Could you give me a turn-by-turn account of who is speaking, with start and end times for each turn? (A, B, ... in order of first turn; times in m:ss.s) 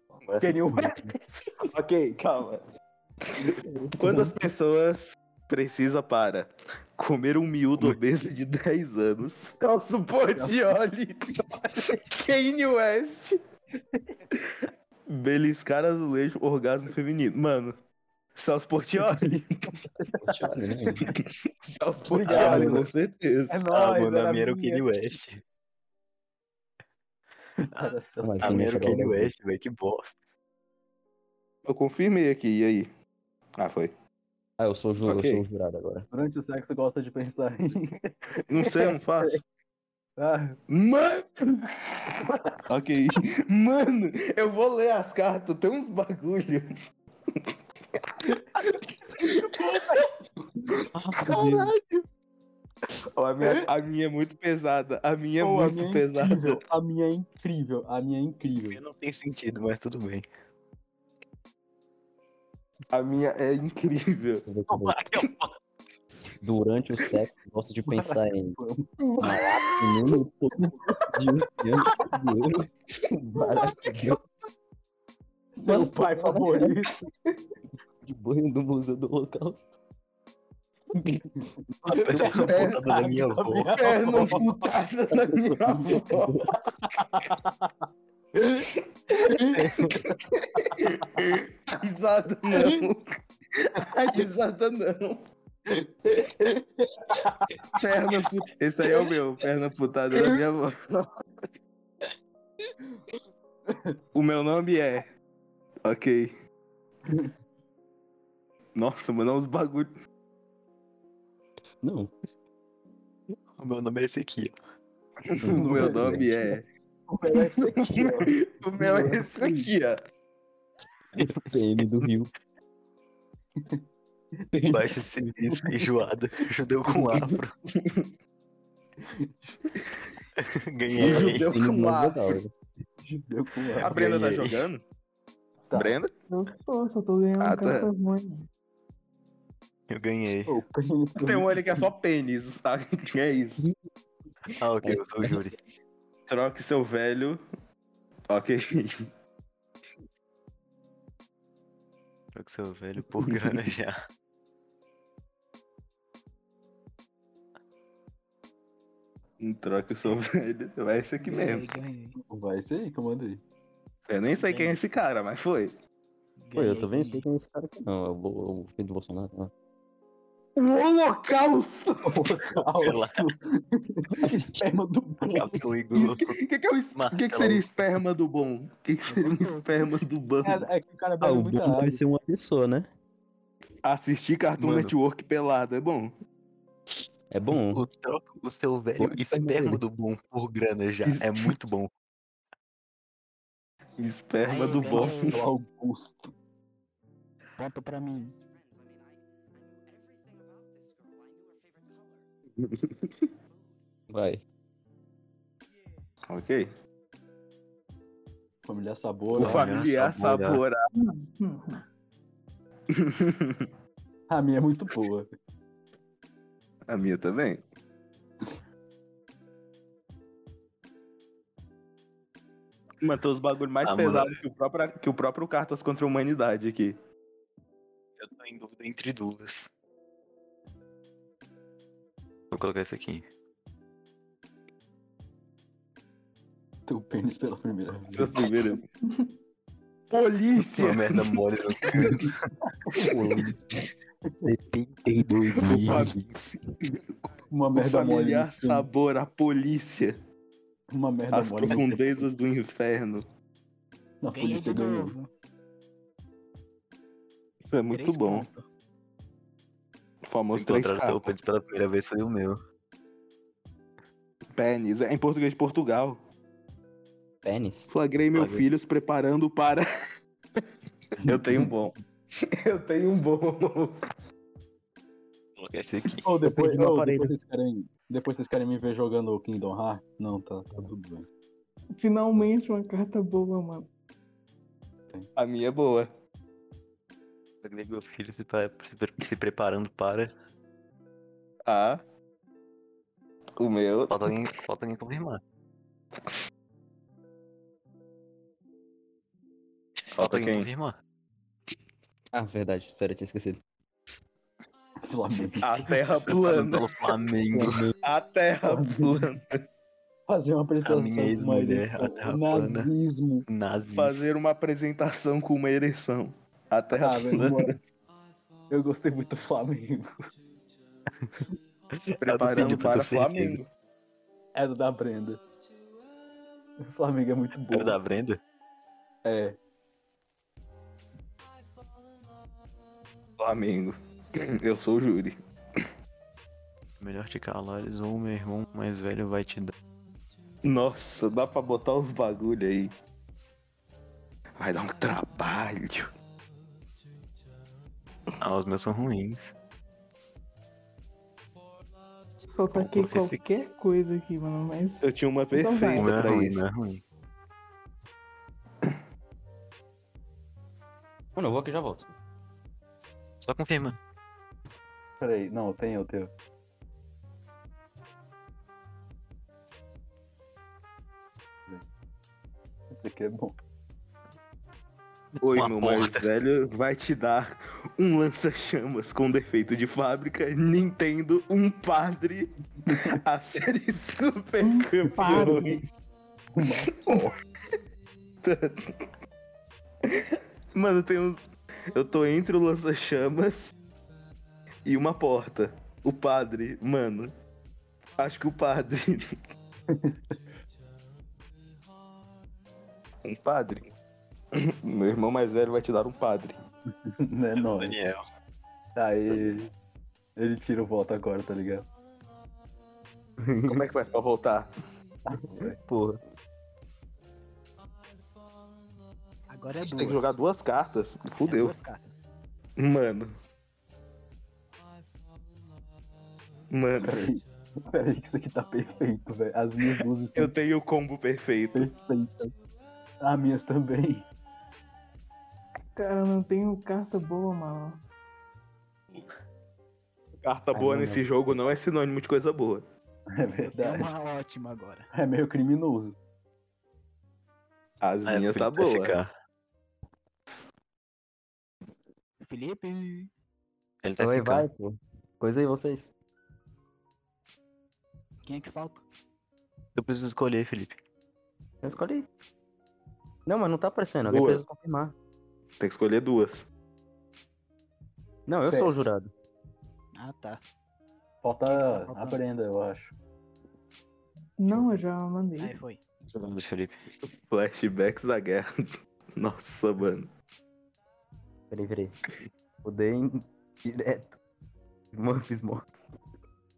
0:00.4-0:01.7 A
0:01.7-0:02.6 B
0:03.4-0:04.4 A
0:04.0-0:13.4 B
0:14.3-0:17.8 B
0:18.4-0:19.8 B
0:19.0-0:20.4 A
0:20.2-0:21.1 C
0:21.2-0:23.5 B
0:22.1-0:22.9 A
0:22.3-0:22.7 D
0:23.5-0:24.9 A
0:23.8-0:25.4 D
0:27.6-0:29.0 A
0:28.2-0:29.3 C
0:28.4-0:30.1 D
0:31.7-0:32.9 B
0:33.6-0:33.9 B
0:34.6-0:36.1 C
0:35.1-0:35.4 B
0:36.1-0:39.2 A
0:38.5-0:39.4 B
0:40.2-0:40.6 A
0:40.7-0:42.0 B
0:42.2-0:42.5 A
0:42.7-0:46.7 B
0:47.3-0:50.1 B
0:49.6-0:50.0 A
0:51.2-0:51.8 B
0:53.1-0:56.6 B
0:53.4-0:53.7 A
0:55.4-0:58.8 A
0:58.7-1:00.2 D
1:02.9-1:04.5 B
1:04.5-1:05.0 C
1:04.7-1:05.5 D
1:06.4-1:08.6 C
1:07.9-1:09.0 A
1:09.0-1:09.4 E
1:09.2-1:14.2 C
1:15.6-1:17.0 A
1:15.6-1:16.7 C
1:18.0-1:19.8 C
1:21.0-1:24.6 A
1:21.9-1:23.7 D
1:21.9-1:22.8 B
1:23.8-1:26.5 B
1:25.6-1:26.1 A
1:26.7-1:27.7 A
1:28.6-1:35.2 B
1:29.3-1:29.6 A
1:35.8-1:37.6 A
1:37.7-1:41.1 B
1:43.7-1:44.0 A
1:44.1-1:45.1 B
1:45.8-1:46.3 B
1:48.8-1:49.9 B
1:51.8-1:52.1 C
1:53.6-1:54.5 D
1:55.3-1:56.6 B
1:55.4-1:56.3 C
1:55.5-1:56.3 A
1:57.1-1:59.7 A
1:57.3-2:00.0 B
2:01.2-2:02.3 C
2:01.2-2:01.8 D
2:04.5-2:05.8 A
2:04.7-2:07.5 D
2:06.9-2:07.3 A
2:07.8-2:08.1 B
2:09.0-2:09.5 A
2:10.7-2:11.5 D
2:10.9-2:11.9 A
2:11.0-2:12.4 B
2:11.0-2:12.5 C
2:13.0-2:14.0 A
2:13.8-2:14.8 B
2:13.8-2:14.6 D
2:15.7-2:16.0 A
2:15.7-2:16.1 B
2:16.3-2:18.5 E
2:17.4-2:17.9 B
2:19.9-2:20.5 D
2:20.5-2:21.9 A
2:21.2-2:23.6 B
2:24.6-2:25.6 D
2:26.3-2:27.4 B
2:28.3-2:29.1 B
2:32.4-2:34.0 D
2:39.4-2:41.7 B
2:41.2-2:42.2 F
2:42.2-2:43.4 A
2:44.1-2:45.7 B
2:44.4-2:44.8 F
2:46.4-2:47.3 F
2:46.6-2:49.5 C
2:50.6-2:52.2 B
2:52.0-2:55.7 A
2:52.7-2:53.1 D
2:54.2-2:54.6 C
2:55.3-2:56.4 D
2:56.0-3:00.7 B
2:57.0-2:57.8 D
2:59.1-3:00.1 F
3:00.4-3:02.0 A
3:01.2-3:02.9 C
3:03.8-3:06.1 B
3:04.6-3:04.9 D
3:07.3-3:07.8 C
3:07.7-3:11.9 D
3:09.0-3:09.8 C
3:11.0-3:11.5 B
3:14.0-3:15.4 B
3:14.4-3:15.4 F
3:14.9-3:16.3 A
3:17.6-3:18.4 F
3:22.6-3:23.1 B
3:24.1-3:24.4 C
3:26.3-3:26.7 B
3:28.6-3:29.7 A
3:29.3-3:30.8 B
3:29.3-3:30.6 D
3:30.9-3:31.8 E
3:32.9-3:33.7 B
3:34.3-3:35.3 A
3:36.9-3:37.6 B
3:43.0-3:47.0 B
3:43.8-3:44.4 D
3:48.2-3:49.7 D
3:52.5-3:53.2 D
3:56.9-3:58.4 A
3:58.1-3:58.8 B
4:00.1-4:01.2 B
4:00.8-4:02.5 D
4:02.9-4:03.2 A
4:03.0-4:03.2 B
4:03.1-4:03.5 C
4:04.4-4:06.6 D
4:05.6-4:06.1 B
4:07.5-4:08.9 A
4:07.7-4:10.2 B
4:10.9-4:12.0 A
4:11.3-4:13.2 B
4:14.2-4:15.1 A
4:14.3-4:15.3 F
4:17.6-4:18.5 B
4:17.9-4:18.6 F
4:20.3-4:21.3 B
4:20.6-4:22.6 D
4:24.6-4:26.2 B
4:27.4-4:27.9 C
4:27.9-4:29.8 B
4:28.3-4:28.6 D
4:31.2-4:34.0 B
4:35.6-4:37.2 D
4:36.1-4:41.3 A
4:42.0-4:43.9 E
4:45.4-4:46.1 B
4:47.6-4:50.3 D
4:51.6-4:52.0 B
4:53.6-4:54.3 B
4:54.1-4:55.4 D
5:00.1-5:01.0 D
5:00.2-5:00.7 B
5:02.3-5:03.6 C
5:05.0-5:05.6 A
5:05.6-5:07.0 B
5:05.7-5:07.9 D
5:07.5-5:08.0 C
5:08.0-5:09.6 B
5:08.6-5:09.3 A
5:10.3-5:13.5 A
5:10.8-5:12.9 D
5:13.5-5:14.3 D
5:13.9-5:17.7 B
5:16.9-5:17.8 A
5:18.7-5:20.2 A
5:22.1-5:23.7 B
5:22.2-5:23.6 D
5:24.6-5:25.4 A
5:26.8-5:28.0 A
5:27.7-5:28.4 D
5:29.2-5:29.6 A
5:33.4-5:35.8 B
5:37.0-5:39.7 D
5:40.6-5:42.9 B
5:44.6-5:46.1 B
5:48.4-5:49.5 D
5:52.5-5:56.3 E
5:52.7-5:53.4 D
5:55.0-5:56.6 B
5:55.9-5:57.0 D
6:01.4-6:02.1 C
6:03.4-6:04.0 D
6:05.2-6:06.3 A
6:12.9-6:13.6 A
6:15.4-6:25.8 B
6:15.5-6:16.2 D
6:22.9-6:23.1 A
6:24.6-6:25.8 E
6:25.2-6:25.6 A
6:26.5-6:27.3 A
6:26.9-6:27.3 B
6:28.4-6:29.0 B
6:30.0-6:33.7 B
6:34.9-6:37.3 B
6:38.2-6:39.2 B
6:39.9-6:40.4 A
6:43.2-6:43.9 B
6:44.5-6:46.6 B
6:47.0-6:48.0 A
6:47.6-6:48.2 D
6:49.0-6:49.7 A
6:50.4-6:51.9 A
6:53.4-6:53.9 C
6:53.7-6:54.7 B
6:55.3-6:55.8 A
6:55.3-6:56.2 C
6:59.5-7:00.3 F
6:59.8-7:01.7 B
7:01.4-7:02.1 F
7:02.8-7:03.3 B
7:06.7-7:07.2 B
7:07.0-7:10.5 A
7:10.4-7:11.9 B
7:11.8-7:12.5 A
7:13.2-7:14.3 A
7:16.0-7:18.0 E
7:20.4-7:22.8 B
7:20.7-7:21.2 C
7:23.3-7:24.1 A
7:23.6-7:25.1 F
7:25.1-7:26.2 A
7:28.0-7:29.1 B
7:28.2-7:29.3 D
7:32.4-7:33.3 F
7:34.0-7:34.7 D
7:34.2-7:36.1 C
7:38.4-7:39.0 F
7:40.0-7:41.0 D
7:41.8-7:42.3 C
7:43.5-7:45.1 C
7:44.3-7:44.6 B
7:45.8-7:46.6 B
7:48.5-7:49.3 C
7:50.1-7:50.6 F
7:51.4-7:53.1 A
7:51.7-7:52.4 F
7:54.6-7:55.7 E
7:55.6-7:56.0 F
7:56.3-7:56.9 D
7:57.4-8:00.3 B
8:01.7-8:02.2 C
8:02.8-8:04.4 C
8:05.1-8:06.2 C